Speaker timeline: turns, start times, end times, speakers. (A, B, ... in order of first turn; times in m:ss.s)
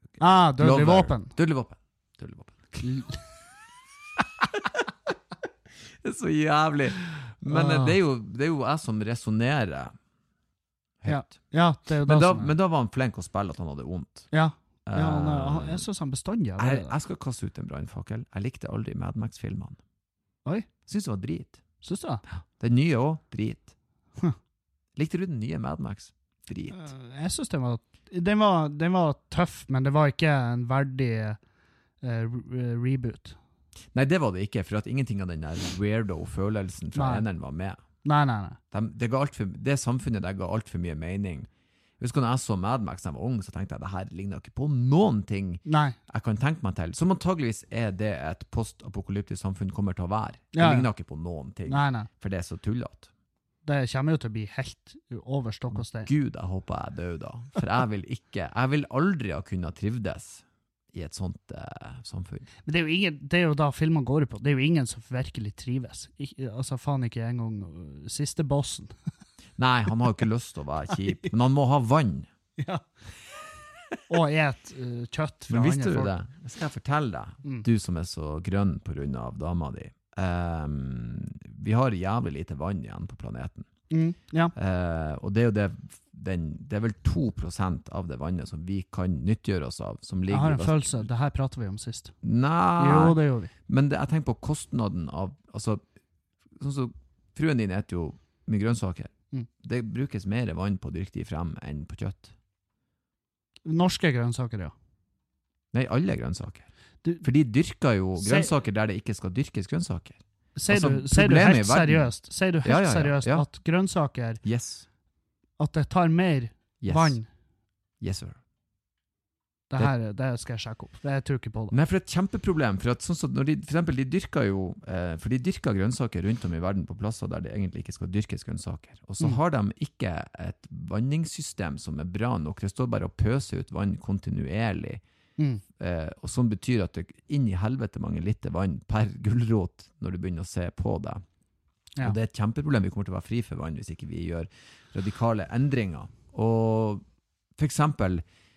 0:00.2-0:01.3 A
0:00.6-0:02.9 B
0:02.8-0:03.2 A
0:05.9-0:09.9 B
0:07.5-0:08.0 A
0:11.0-0:11.3 B
0:11.1-0:12.5 A
0:12.0-0:14.3 B
0:14.3-0:17.0 A
0:14.8-0:15.8 B
0:16.6-0:19.8 B
0:20.8-0:21.6 B
0:21.8-0:22.2 A
0:22.5-0:23.7 B
0:25.0-0:26.9 B
0:26.7-0:31.4 A
0:32.0-0:33.4 A
0:33.9-0:37.8 B
0:36.9-0:37.2 A
0:38.0-0:38.6 A
0:38.7-0:41.5 B
0:42.0-0:53.1 B
0:45.6-0:46.0 A
0:50.5-0:50.9 A
0:51.7-0:52.1 A
0:53.6-0:56.1 A
0:55.8-1:02.5 B
1:02.6-1:08.9 A
1:09.6-1:12.3 B
1:12.6-1:12.8 A
1:14.1-1:16.1 A
1:15.5-1:23.7 B
1:23.9-1:24.5 A
1:24.5-1:31.0 B
1:30.3-1:32.1 A
1:32.2-1:35.8 B
1:32.8-1:33.5 A
1:36.6-1:42.3 B
1:43.6-1:44.7 A
1:45.7-1:46.7 B
1:47.2-1:52.1 B
1:48.2-1:48.5 A
1:50.6-1:54.4 A
1:52.6-1:53.4 B
1:54.4-1:54.8 B
1:55.6-1:57.2 A
1:56.8-1:57.2 B
1:58.0-1:58.4 B
1:59.7-2:01.8 A
2:01.7-2:15.0 B
2:15.8-2:21.2 B
2:22.0-2:27.0 B
2:27.6-2:28.2 B